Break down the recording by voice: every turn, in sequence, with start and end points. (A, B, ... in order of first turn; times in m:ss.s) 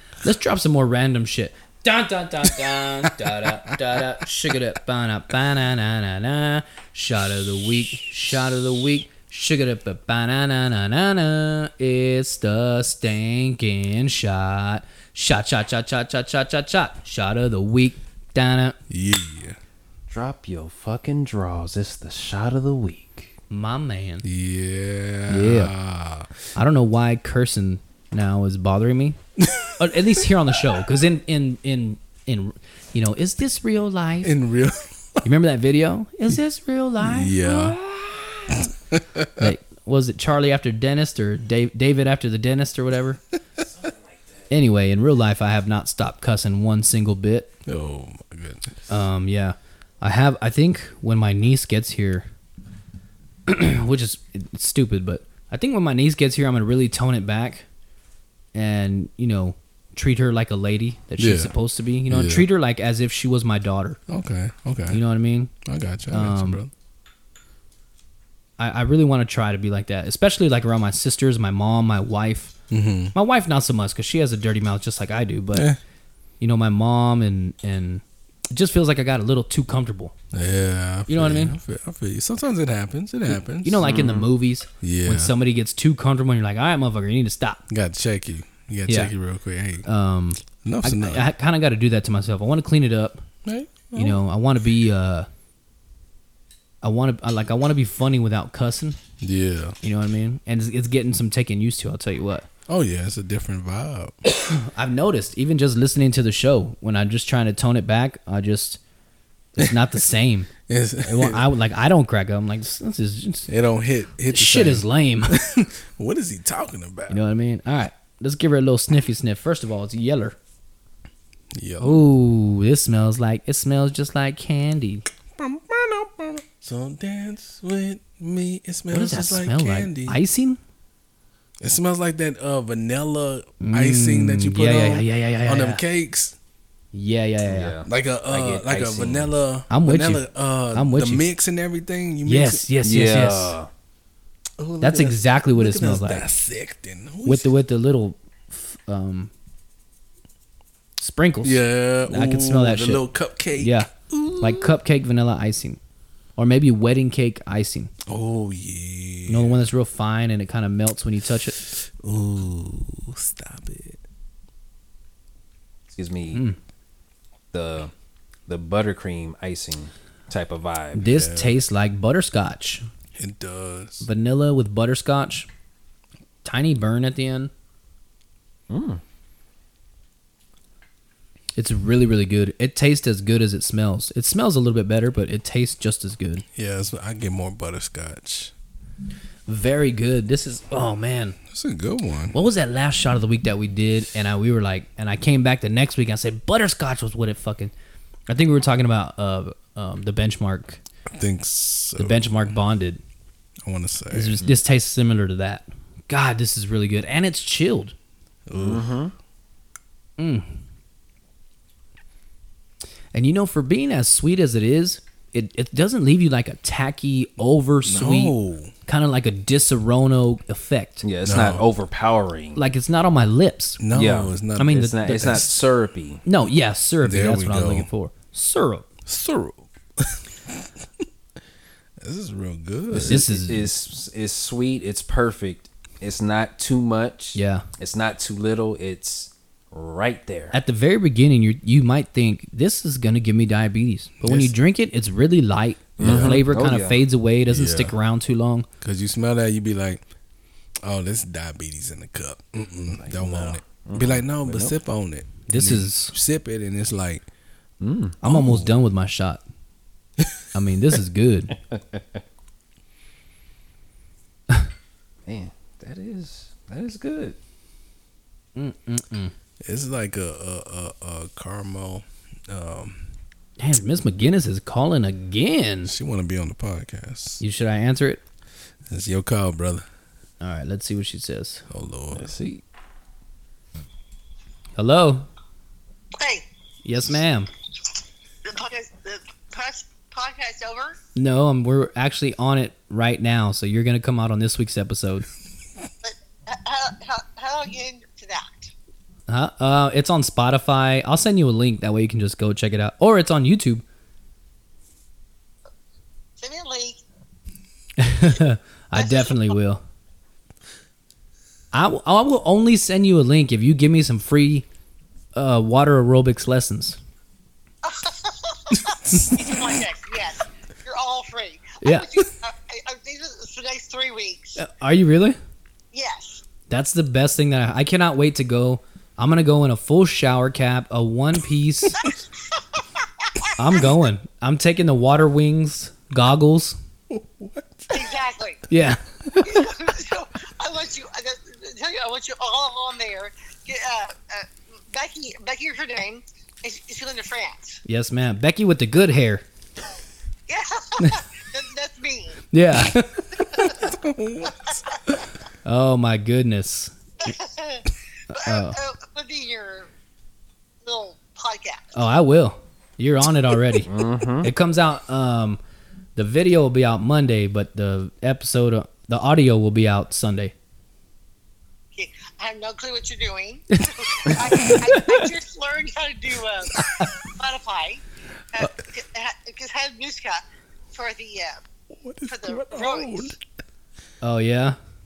0:00.2-0:18.8 A
0:18.9-0:19.6 B
0:20.1-0:23.3 C
0:23.5-0:24.2 A
0:24.2-0:26.3 B
0:25.3-0:25.7 A
0:26.6-0:29.2 A
0:29.4-0:29.8 B
0:29.8-0:34.3 A
0:34.2-0:35.2 B
0:35.2-0:38.6 A
0:37.0-0:37.8 B
0:38.5-0:39.5 B
0:39.4-0:43.2 A
0:43.7-0:44.2 C
0:44.5-0:47.5 A
0:47.7-0:48.8 B
0:48.9-0:52.3 A
0:53.5-0:57.7 A
0:58.5-1:04.0 A
1:01.2-1:01.6 B
1:02.1-1:02.5 B
1:04.1-1:05.0 B
1:04.9-1:05.5 A
1:05.6-1:06.7 B
1:06.1-1:06.6 A
1:08.6-1:12.6 A
1:12.7-1:13.2 B
1:13.1-1:15.7 A
1:15.5-1:15.8 B
1:16.4-1:20.1 A
1:20.3-1:24.0 B
1:21.1-1:21.6 A
1:23.6-1:27.6 A
1:23.8-1:24.3 C
1:24.8-1:25.3 B
1:27.7-1:29.9 B
1:28.9-1:29.1 A
1:29.8-1:33.3 A
1:30.6-1:31.3 B
1:33.4-1:34.2 B
1:33.9-1:35.3 A
1:36.8-1:39.0 A
1:39.2-1:39.8 B
1:39.8-1:42.5 A
1:42.7-1:44.2 B
1:44.4-1:48.8 A
1:49.6-1:53.5 A
1:50.7-1:51.5 B
1:53.5-1:57.2 B
1:54.3-1:55.4 A
1:57.1-2:00.4 A
2:01.6-2:02.0 B
2:01.8-2:05.1 A
2:05.4-2:10.2 B
2:08.9-2:10.6 A
2:11.6-2:16.4 B
2:13.6-2:15.8 A
2:16.9-2:17.8 A
2:17.5-2:19.3 C
2:17.8-2:22.7 B
2:19.7-2:21.2 A
2:22.2-2:23.6 A
2:22.8-2:23.7 C
2:24.6-2:27.5 B
2:24.8-2:26.3 A
2:27.2-2:29.3 A
2:31.0-2:35.8 A
2:31.4-2:34.8 B
2:36.4-2:37.9 A
2:38.1-2:39.6 B
2:39.3-2:41.6 A
2:42.0-2:44.0 B
2:45.9-2:46.4 C
2:46.3-2:46.6 A
2:47.5-2:47.9 C
2:48.5-2:51.0 C
2:51.0-2:52.9 A
2:51.1-2:51.6 B
2:53.2-2:54.1 B
2:54.0-2:55.5 A
2:56.4-2:57.5 A
2:58.7-2:59.0 C
3:01.6-3:06.4 A
3:06.6-3:08.5 B
3:09.5-3:11.4 A
3:11.5-3:12.4 B
3:12.3-3:17.7 A
3:18.3-3:20.8 A
3:21.1-3:22.6 B
3:22.0-3:23.0 A
3:23.6-3:24.4 B
3:24.1-3:28.0 A
3:28.5-3:28.9 B
3:28.5-3:29.1 C
3:30.2-3:30.5 A
3:33.1-3:41.0 A
3:37.8-3:38.7 B
3:41.0-3:42.6 C
3:41.2-3:41.6 B
3:42.6-3:43.8 A
3:43.8-3:45.4 B
3:43.9-3:46.2 C
3:44.6-3:45.6 A
3:46.2-3:48.9 A
3:47.0-3:47.9 B
3:49.1-3:50.7 B
3:52.0-3:53.3 B
3:52.9-3:53.7 A
3:53.0-4:00.6 C
3:57.4-3:57.7 A
4:00.5-4:08.7 A
4:04.2-4:04.5 B
4:06.0-4:07.0 C
4:06.0-4:06.4 B
4:07.5-4:07.9 B
4:08.8-4:10.0 B
4:10.8-4:17.3 B
4:12.9-4:14.8 C
4:15.5-4:16.1 A
4:17.8-4:18.2 C
4:18.2-4:18.7 B
4:18.2-4:19.4 A
4:20.5-4:21.6 A
4:21.7-4:22.0 C
4:25.3-4:27.4 C
4:28.6-4:29.3 A
4:29.6-4:33.0 B
4:33.6-4:35.9 A
4:35.8-4:37.4 B
4:37.4-4:38.2 A
4:38.9-4:39.9 B
4:40.4-4:41.6 A
4:41.7-4:42.3 B
4:42.1-4:42.6 C
4:44.8-4:45.3 A
4:46.2-4:46.5 D
4:46.8-4:47.5 A
4:48.4-4:51.0 D
4:51.2-4:55.3 A
4:56.0-4:58.7 D
4:59.3-5:03.8 A
5:06.4-5:07.0 D
5:08.0-5:09.8 A
5:09.0-5:09.6 D
5:11.7-5:14.7 A
5:15.4-5:17.0 A
5:17.8-5:24.6 D
5:21.8-5:22.1 A
5:24.6-5:25.4 A
5:25.9-5:26.4 D
5:26.7-5:32.1 A
5:32.0-5:33.8 D
5:33.6-5:36.8 A
5:37.1-5:38.2 B
5:37.9-5:38.6 D
5:38.7-5:39.7 A
5:39.4-5:47.8 D
5:47.8-5:49.4 A
5:50.5-5:52.4 D
5:52.5-5:53.8 A
5:53.6-5:55.1 B
5:54.5-5:54.8 D
5:55.6-5:56.9 A
5:57.2-5:59.9 D
5:58.3-5:58.8 A
6:00.8-6:01.9 D
6:01.9-6:03.9 A
6:03.9-6:04.5 C
6:04.4-6:05.6 A
6:06.2-6:10.5 A
6:12.0-6:21.6 D
6:14.5-6:15.3 A
6:16.8-6:17.1 A
6:21.9-6:23.4 B
6:22.3-6:23.3 D
6:24.2-6:24.8 A